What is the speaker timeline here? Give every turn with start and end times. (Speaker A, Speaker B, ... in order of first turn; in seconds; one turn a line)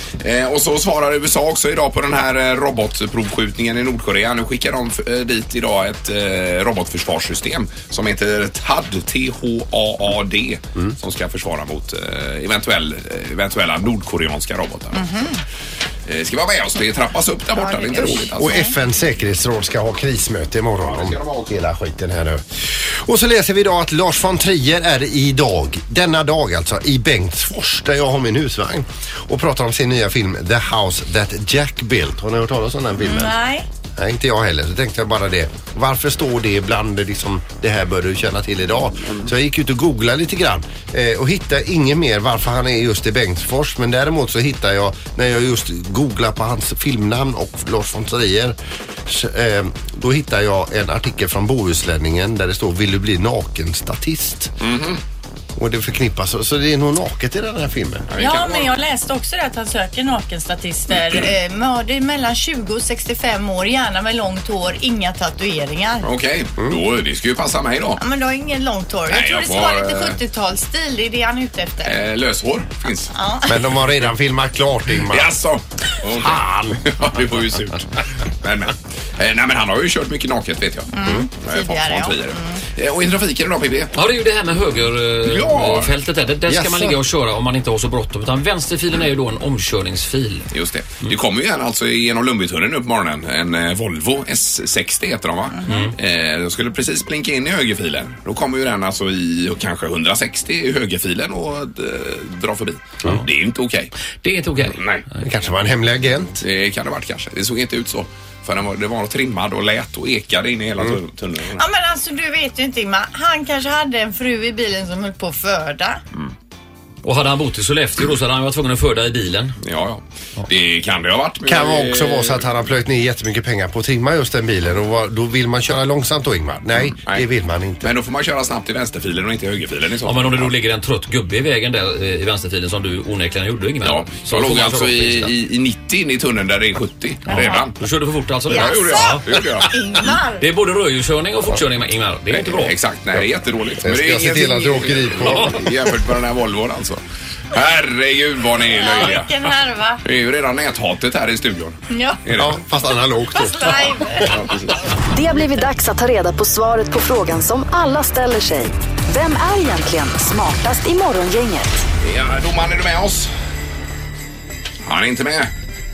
Speaker A: 0.2-15.1
Speaker B: 14.9-15.4
Speaker A: 16.1-18.6
Speaker B: 17.6-18.7
Speaker C: 18.4-33.4
Speaker A: 20.8-21.5
Speaker B: 33.0-33.6
Speaker C: 34.0-54.5
Speaker A: 54.6-55.0
Speaker C: 55.5-58.1
Speaker A: 58.1-58.8
Speaker B: 58.2-66.1
Speaker A: 66.0-68.0
Speaker B: 68.0-72.0
Speaker A: 69.1-70.2
Speaker A: 71.8-73.1
Speaker B: 73.1-73.6
Speaker C: 73.5-75.3
Speaker A: 75.1-83.9
Speaker C: 76.2-76.9
Speaker B: 80.9-82.6
Speaker D: 84.0-90.5
Speaker A: 85.3-85.9
Speaker C: 86.5-87.0
Speaker A: 90.5-103.9
Speaker D: 95.7-95.9
Speaker D: 104.2-105.3
Speaker A: 104.7-105.0
Speaker C: 105.2-106.4
Speaker A: 106.4-111.6
Speaker B: 111.6-116.0
Speaker D: 117.0-119.5
Speaker A: 119.6-122.5
Speaker C: 121.4-127.9
Speaker A: 127.8-130.5
Speaker D: 130.0-135.3
Speaker A: 133.8-137.8
Speaker B: 137.3-137.6
Speaker D: 137.3-139.2
Speaker B: 138.5-140.4
Speaker A: 138.5-139.7
Speaker D: 140.4-142.7
Speaker A: 142.3-147.0
Speaker C: 143.8-145.9
Speaker A: 147.5-149.3
Speaker B: 148.7-150.0
Speaker A: 150.0-152.6
Speaker B: 151.9-152.2
Speaker C: 152.3-154.3
Speaker B: 153.3-154.3
Speaker A: 154.3-154.8
Speaker E: 155.1-161.8
Speaker A: 162.0-163.3
Speaker A: 164.8-165.5